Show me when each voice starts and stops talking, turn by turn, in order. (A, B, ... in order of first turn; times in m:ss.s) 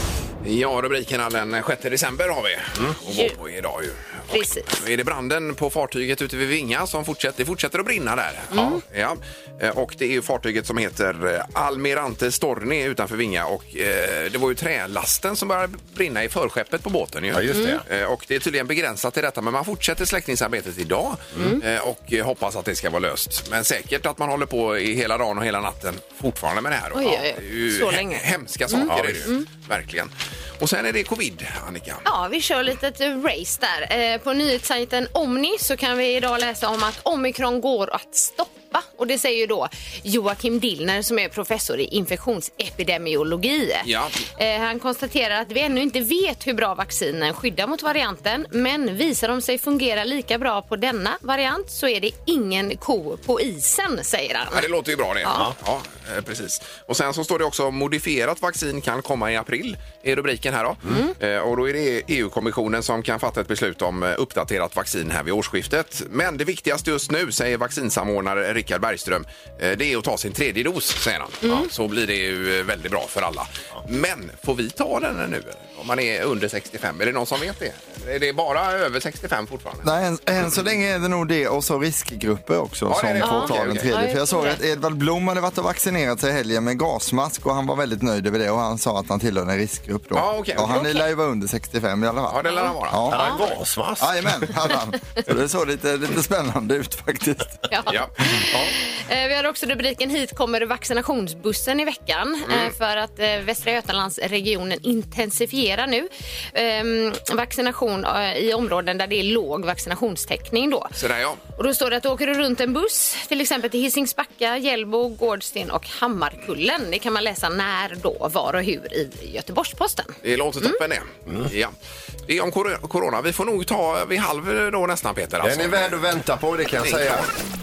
0:00.4-0:32.0 A
0:03.1-0:03.4 B
0:04.3-0:04.8 B
0:08.5-0:08.8 B
0:17.3-0:17.8 C
0:17.5-0:17.8 B
0:21.4-0:21.6 B
0:27.0-0:29.5 B
0:28.8-0:29.3 C
0:32.0-0:54.7 B
0:43.8-0:44.2 A
0:54.5-1:19.9 A
1:00.9-1:01.1 B
1:19.8-1:33.3 D
1:22.9-1:23.9 A
1:23.2-1:24.6 B
1:30.2-1:30.7 A
1:30.7-1:31.1 B
1:32.3-1:33.4 A
1:32.5-1:33.4 B
1:33.1-1:34.5 C
1:34.0-1:37.7 D
1:37.7-1:50.9 B
1:37.9-1:38.2 A
1:38.3-1:38.7 D
1:42.5-1:42.7 A
1:51.0-1:51.4 A
1:51.6-2:00.8 B
2:00.2-2:01.8 A
2:02.3-2:06.0 A
2:05.4-2:07.3 C
2:06.8-2:07.3 A